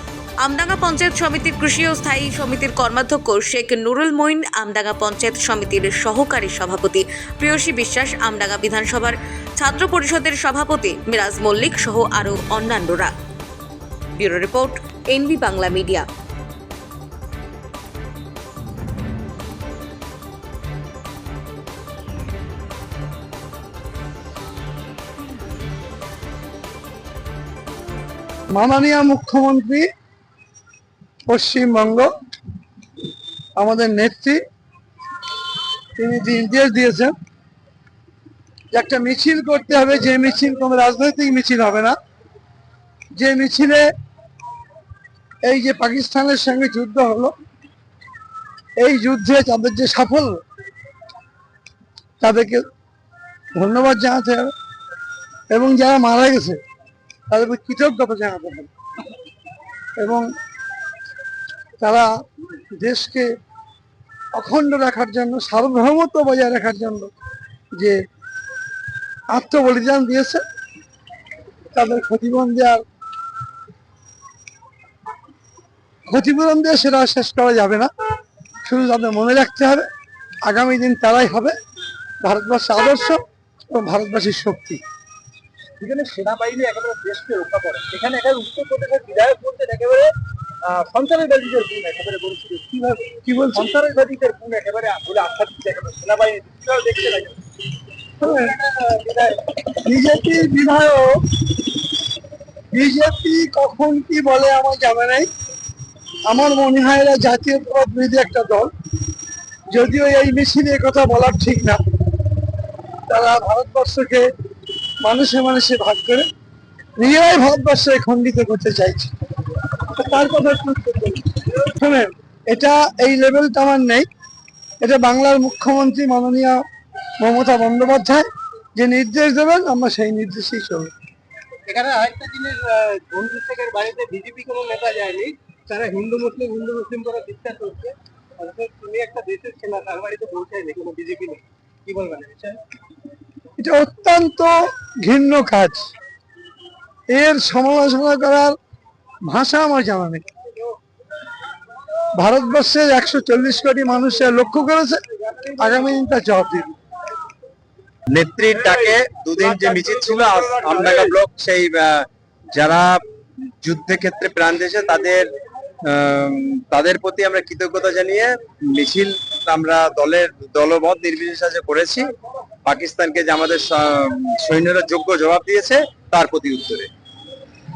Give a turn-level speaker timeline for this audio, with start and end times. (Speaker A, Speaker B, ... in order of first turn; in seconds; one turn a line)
Speaker A: 0.4-13.1
Speaker A: 14.2-16.1
Speaker B: 28.5-29.9
Speaker B: 31.3-32.1
Speaker B: 33.6-34.4
Speaker B: 36.0-37.1
Speaker B: 38.7-42.0
Speaker B: 43.2-43.9
Speaker B: 45.5-47.4
Speaker B: 48.8-50.4
Speaker B: 52.2-52.6
Speaker B: 53.6-54.5
Speaker B: 55.5-56.6
Speaker B: 57.3-58.7
Speaker B: 60.0-60.2
Speaker B: 61.8-62.1
Speaker B: 62.8-63.3
Speaker B: 64.4-67.1
Speaker B: 69.3-70.4
Speaker B: 71.7-72.8
Speaker B: 76.1-77.9
Speaker B: 78.7-79.9
Speaker B: 80.5-81.5
Speaker B: 82.2-84.8
Speaker C: 85.8-90.1
Speaker C: 90.6-97.4
Speaker B: 93.2-93.7
Speaker B: 98.2-99.2
Speaker C: 98.9-99.3
Speaker B: 99.8-101.2
Speaker B: 102.7-105.3
Speaker B: 106.3-108.7
Speaker B: 109.7-111.8
Speaker B: 113.1-114.3
Speaker B: 115.0-116.3
Speaker B: 117.0-119.1
Speaker B: 119.9-124.1
Speaker B: 124.8-126.6
Speaker B: 127.2-128.2
Speaker B: 128.8-130.9
Speaker C: 131.7-142.6
Speaker B: 143.6-145.9
Speaker B: 147.1-148.6
Speaker B: 149.3-150.2
Speaker B: 152.2-156.8
Speaker D: 158.1-163.0
Speaker C: 159.6-160.9
Speaker D: 163.6-165.3
Speaker D: 165.8-172.1
Speaker D: 172.7-176.9